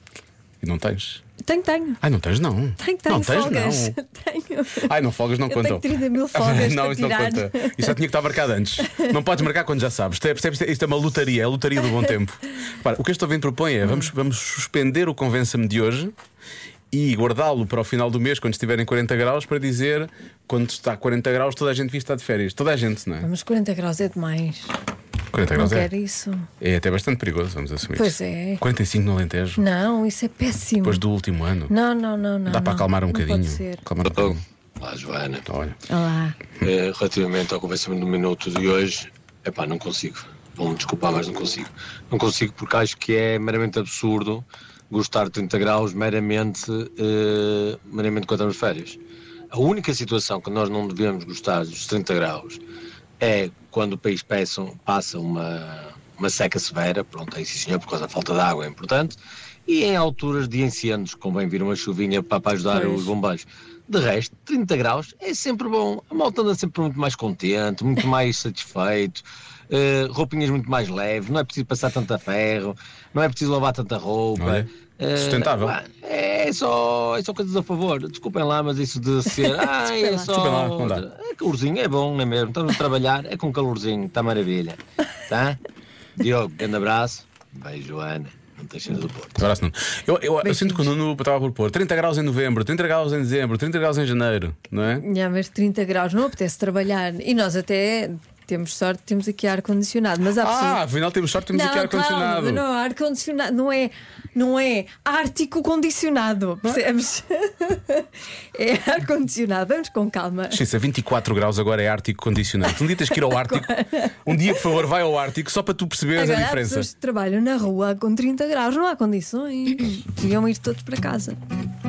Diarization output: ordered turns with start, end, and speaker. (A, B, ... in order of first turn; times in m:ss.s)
0:00.6-0:01.2 A
0:01.4-0:02.0 B
0:02.0-0:04.0 A
0:02.8-0:04.9 B
0:04.8-0:16.1 A
0:05.5-0:08.0 B
0:08.8-0:09.2 B
0:16.9-0:23.3 A
0:23.2-0:24.7 B
0:25.3-0:25.9 A
0:25.5-0:26.5 B
0:26.6-0:29.6 A
0:28.0-0:28.6 B
0:29.6-0:31.0 B
0:30.8-0:31.7 A
0:31.7-0:33.8 B
0:32.5-0:34.4 A
0:34.1-0:35.5 C
0:35.5-0:35.8 A
0:35.9-0:36.4 B
0:36.6-0:49.0 C
0:49.5-0:52.6 C
0:53.2-1:25.6 C
1:02.7-1:03.1 B
1:14.4-1:15.8 A
1:20.0-1:20.3 B
1:20.3-1:21.0 A
1:26.2-1:29.4 C
1:29.4-1:35.1 A
1:30.4-1:30.9 B
1:35.0-1:40.8 B
1:40.4-1:42.6 A
1:41.5-1:50.6 B
1:50.5-1:53.7 A
1:52.7-1:54.6 B
1:54.2-1:56.9 A
1:56.2-2:01.4 B